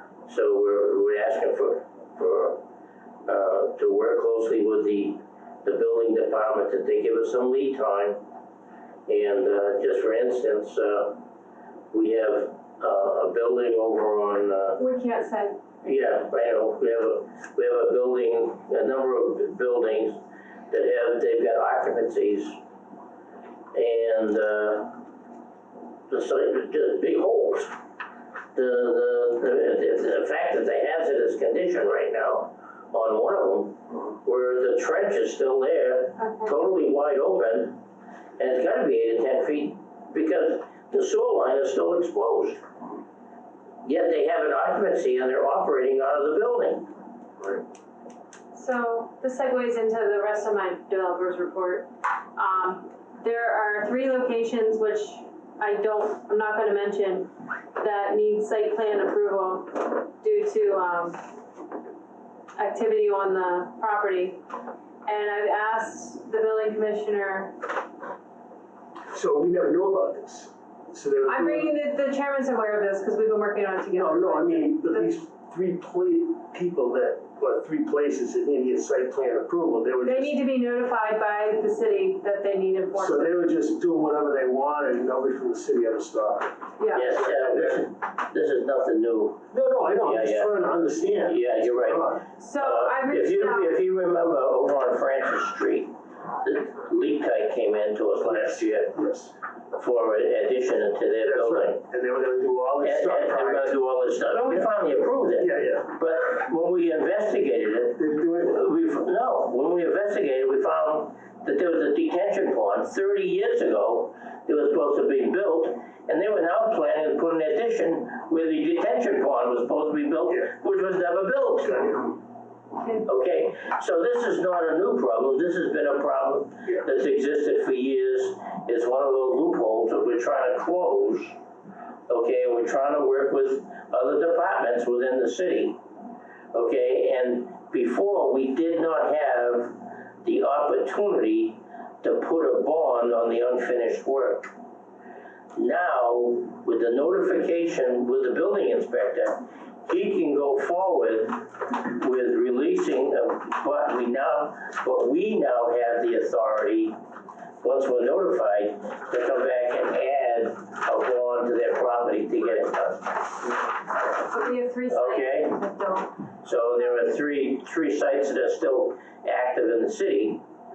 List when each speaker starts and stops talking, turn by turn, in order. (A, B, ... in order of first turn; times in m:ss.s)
0:00.3-0:02.6 A
0:03.2-0:08.2 A
0:09.1-0:11.2 A
0:11.9-0:14.8 A
0:14.8-0:15.6 B
0:15.8-0:20.2 A
0:20.7-0:22.6 A
0:23.7-0:25.0 A
0:26.1-0:27.7 A
0:28.5-0:37.8 A
0:36.2-0:36.5 B
0:38.4-0:42.6 A
0:43.8-0:46.9 A
0:48.5-1:01.2 B
1:02.6-1:04.4 B
1:05.0-1:07.6 B
1:09.1-1:11.7 C
1:11.3-1:15.1 B
1:13.9-1:20.4 C
1:20.0-1:23.3 B
1:22.9-1:27.8 C
1:26.8-1:27.1 B
1:26.9-1:39.0 A
1:29.5-1:32.2 C
1:32.4-1:33.7 B
1:38.2-1:39.3 C
1:39.7-1:41.8 A
1:41.2-1:43.8 C
1:42.8-2:02.1 A
1:45.4-1:45.9 C
1:48.0-1:48.6 C
2:01.7-2:02.1 C
2:03.0-2:11.4 A
2:12.1-2:15.8 A
2:16.5-2:24.5 A
2:25.5-2:37.0 A
2:37.6-2:43.4 A
2:44.1-2:46.2 B
2:44.9-2:45.6 A
2:46.4-2:50.4 A